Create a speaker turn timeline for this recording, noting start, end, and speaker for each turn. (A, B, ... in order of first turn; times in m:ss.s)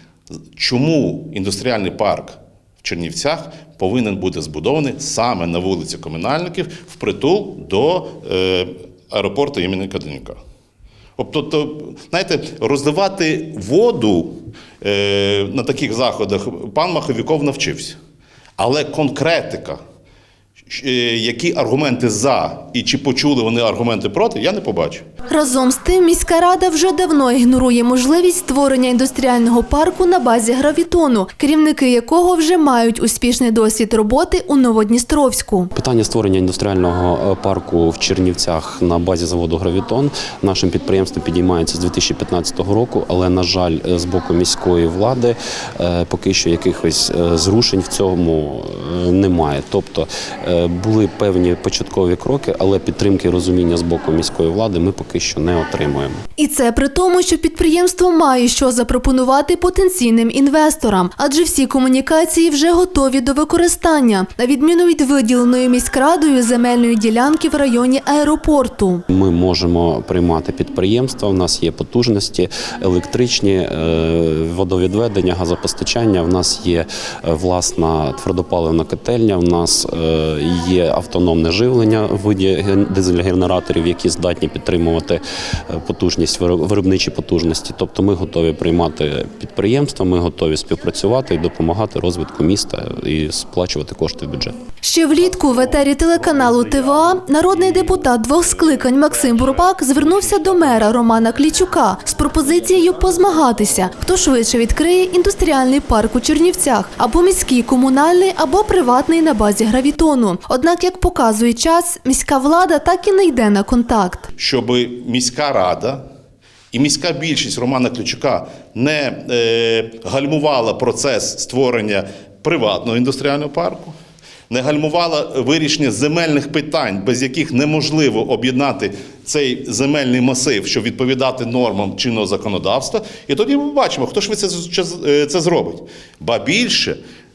0:00.5-0:10.4 A
0:11.2-0:18.0 A
0:18.6-0:19.8 A
0:20.7-0:25.0 A
0:25.3-0:35.7 B
0:35.7-0:56.2 C
0:56.4-1:09.0 B
1:09.1-1:34.6 C
1:34.8-1:54.3 B
1:54.4-1:56.0 A
1:56.7-2:03.9 A
2:04.5-2:17.0 A